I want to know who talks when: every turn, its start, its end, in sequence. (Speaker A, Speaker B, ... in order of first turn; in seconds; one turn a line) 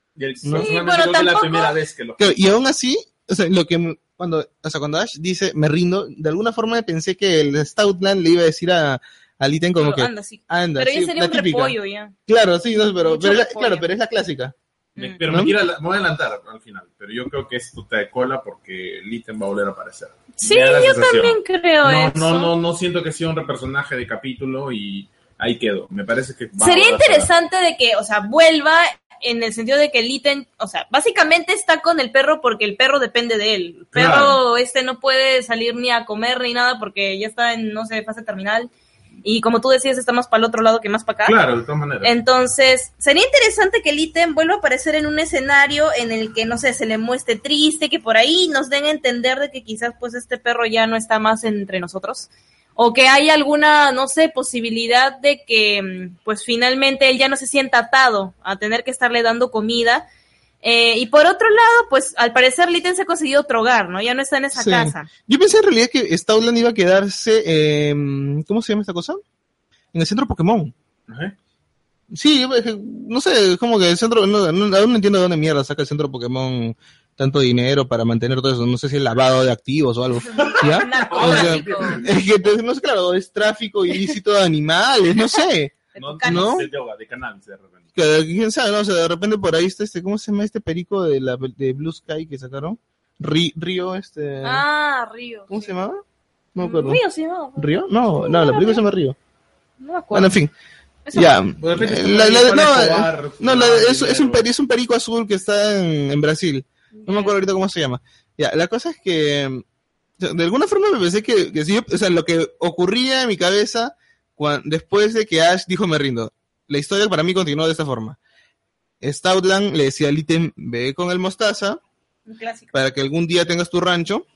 Speaker A: 0.1-2.6
Speaker B: 0.5-1.7
Speaker C: 2.2-11.8
Speaker B: 9.8-12.1
Speaker C: 12.3-14.5
Speaker B: 13.0-13.9
Speaker B: 14.9-15.2
Speaker A: 15.0-27.3
Speaker C: 15.3-15.5
Speaker B: 20.4-22.5
Speaker B: 26.6-38.7
Speaker A: 33.9-34.4
Speaker B: 39.2-41.4
Speaker A: 41.2-42.1
Speaker B: 42.0-60.0
Speaker B: 60.6-65.1
Speaker C: 64.5-69.2
Speaker C: 69.9-70.7
Speaker A: 71.1-71.3
Speaker C: 72.1-86.7
Speaker B: 80.3-82.0
Speaker A: 80.3-82.0
Speaker B: 85.9-86.5
Speaker A: 86.0-87.9
Speaker C: 88.0-94.6
Speaker B: 94.4-95.7
Speaker C: 95.5-96.0
Speaker C: 96.5-97.0
Speaker B: 96.6-98.8
Speaker C: 97.6-99.2
Speaker B: 99.8-100.3
Speaker C: 100.1-100.5
Speaker B: 101.0-101.4
Speaker C: 101.1-109.6
Speaker A: 101.5-104.4
Speaker B: 106.9-107.3
Speaker C: 110.2-118.2
Speaker C: 119.0-121.8
Speaker B: 122.2-122.8
Speaker C: 122.7-124.2